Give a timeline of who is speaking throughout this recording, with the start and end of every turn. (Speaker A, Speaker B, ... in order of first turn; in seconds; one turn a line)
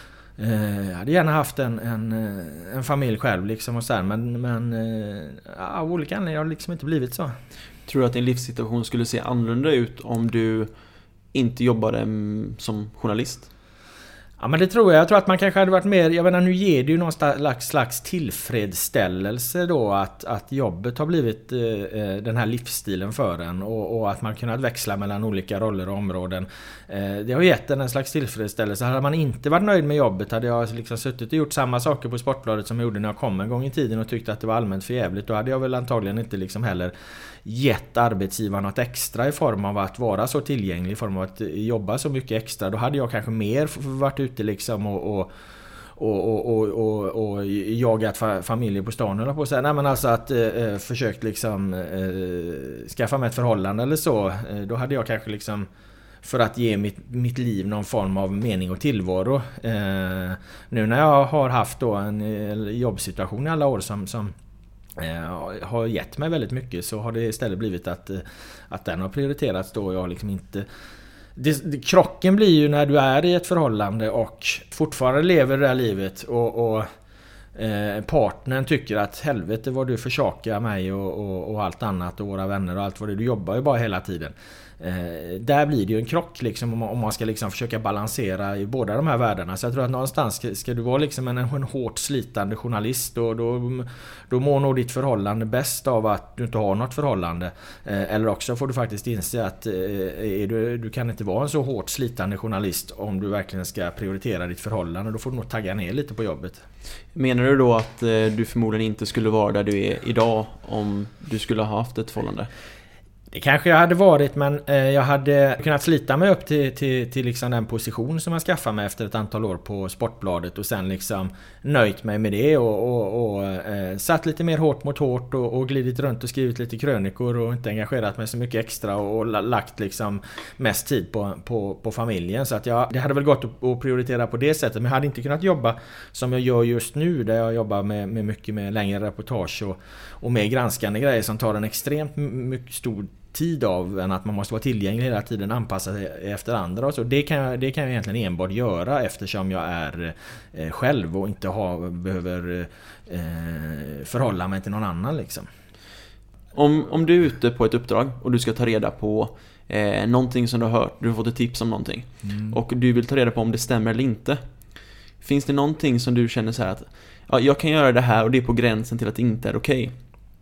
Speaker A: 0.4-7.3
Speaker B: 7.9-10.7
Speaker B: 11.3-13.5
Speaker A: 14.4-36.9
Speaker A: 37.5-45.3
Speaker A: 46.0-55.7
Speaker A: 56.2-64.3
Speaker A: 65.0-70.7
Speaker A: 71.4-76.9
Speaker A: 77.6-106.6
Speaker B: 107.1-112.5
Speaker A: 113.3-155.5
Speaker B: 156.5-164.4
Speaker A: 162.2-162.6
Speaker B: 165.2-169.9